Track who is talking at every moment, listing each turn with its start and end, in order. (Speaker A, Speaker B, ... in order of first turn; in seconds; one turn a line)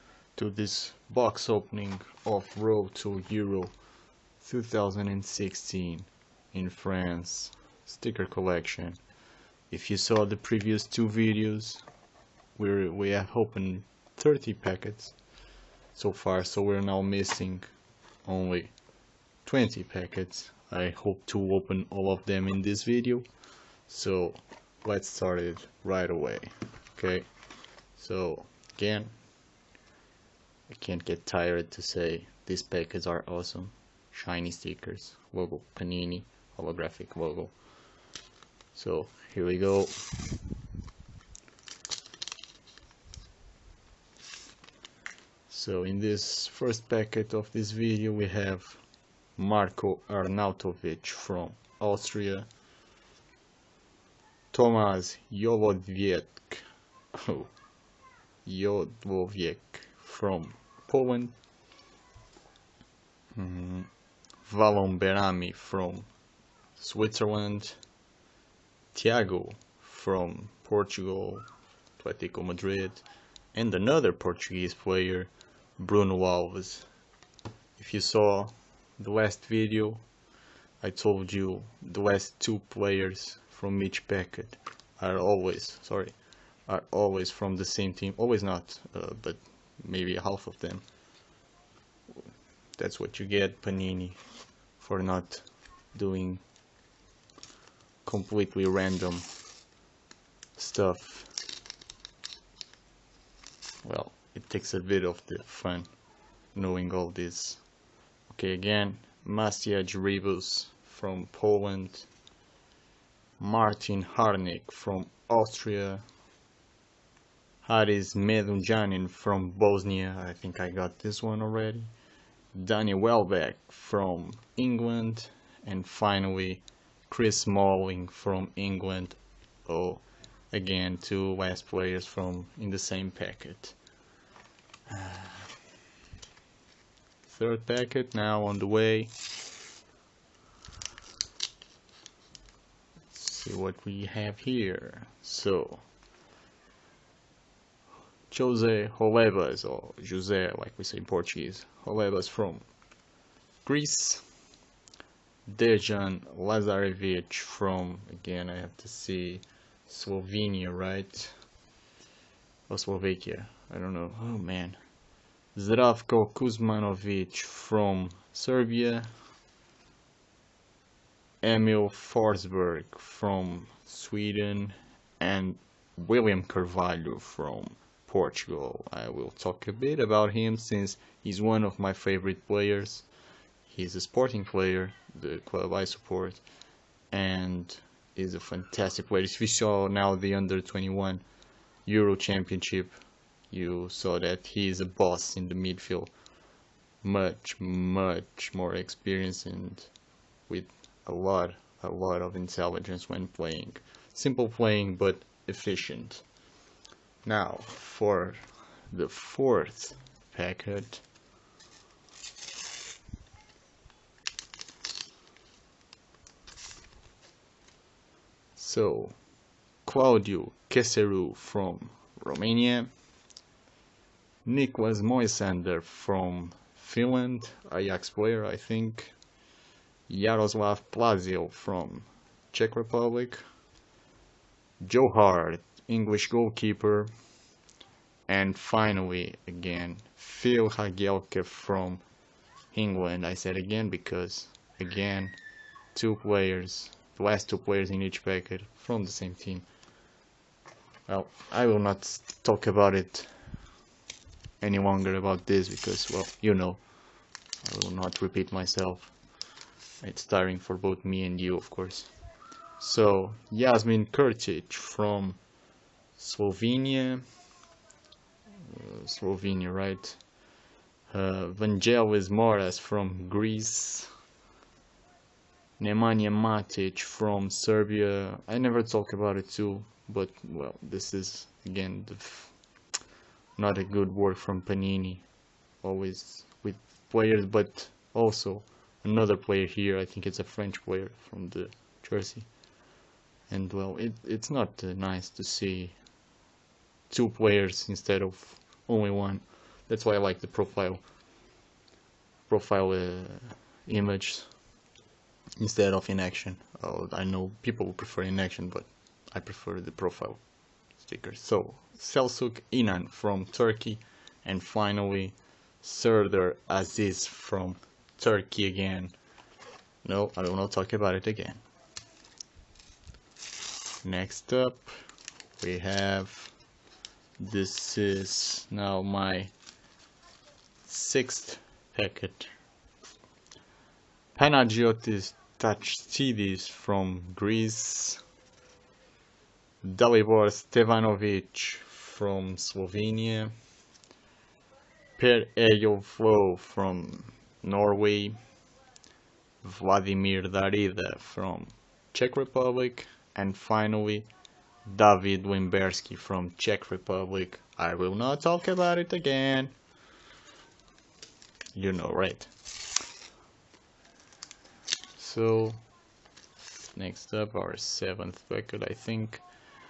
Speaker A: 0.4-3.7
Speaker A: 4.4-9.0
Speaker A: 9.7-11.8
Speaker A: 12.6-15.2
Speaker A: 15.9-17.7
Speaker A: 18.3-18.7
Speaker A: 19.4-23.2
Speaker A: 23.9-27.3
Speaker A: 28.0-29.1
Speaker A: 30.7-37.5
Speaker A: 38.7-39.9
Speaker A: 45.5-48.8
Speaker A: 49.4-52.5
Speaker A: 54.5-57.5
Speaker A: 58.5-61.3
Speaker A: 63.4-63.9
Speaker A: 64.5-66.1
Speaker A: 66.8-67.8
Speaker A: 68.9-71.4
Speaker A: 72.0-76.9
Speaker A: 77.8-80.0
Speaker A: 80.8-86.2
Speaker A: 86.7-90.8
Speaker A: 92.8-94.2
Speaker A: 94.8-96.4
Speaker A: 98.0-99.2
Speaker A: 100.6-101.3
Speaker A: 103.8-105.9
Speaker A: 106.5-107.6
Speaker A: 108.3-112.1
Speaker A: 113.4-116.0
Speaker A: 117.6-121.9
Speaker A: 122.5-133.8
Speaker A: 134.9-135.5
Speaker A: 137.3-139.1
Speaker A: 143.1-145.8
Speaker A: 148.3-152.6
Speaker A: 153.7-154.2
Speaker A: 155.5-161.3
Speaker A: 162.7-164.8
Speaker A: 165.6-169.1
Speaker A: 171.4-183.1
Speaker A: 183.7-186.4
Speaker A: 187.1-191.2
Speaker A: 191.9-192.9
Speaker A: 193.5-196.1
Speaker A: 197.0-199.9
Speaker A: 200.5-206.2
Speaker A: 207.2-211.0
Speaker A: 218.6-219.2
Speaker A: 219.9-222.9
Speaker A: 224.4-229.2
Speaker A: 230.1-233.4
Speaker A: 234.8-237.1
Speaker A: 238.3-242.0
Speaker A: 242.7-245.4
Speaker A: 245.9-249.7
Speaker A: 251.1-253.3
Speaker A: 254.6-256.8
Speaker A: 257.6-259.1
Speaker A: 260.0-262.1
Speaker A: 262.8-265.4
Speaker A: 266.2-267.2
Speaker A: 268.6-270.2
Speaker A: 271.1-274.1
Speaker A: 275.8-282.5
Speaker A: 283.6-285.3
Speaker A: 285.8-292.5
Speaker A: 293.5-296.0
Speaker A: 297.1-301.0
Speaker A: 302.5-304.5
Speaker A: 305.6-310.4
Speaker A: 311.0-319.2
Speaker A: 320.0-321.6
Speaker A: 324.0-324.9
Speaker A: 325.6-326.5
Speaker A: 327.4-329.5
Speaker A: 330.9-332.5
Speaker A: 334.4-338.2
Speaker A: 339.8-343.5
Speaker A: 345.2-348.4
Speaker A: 349.6-354.3
Speaker A: 354.9-359.7
Speaker A: 361.8-362.5
Speaker A: 365.2-365.8
Speaker A: 366.9-369.4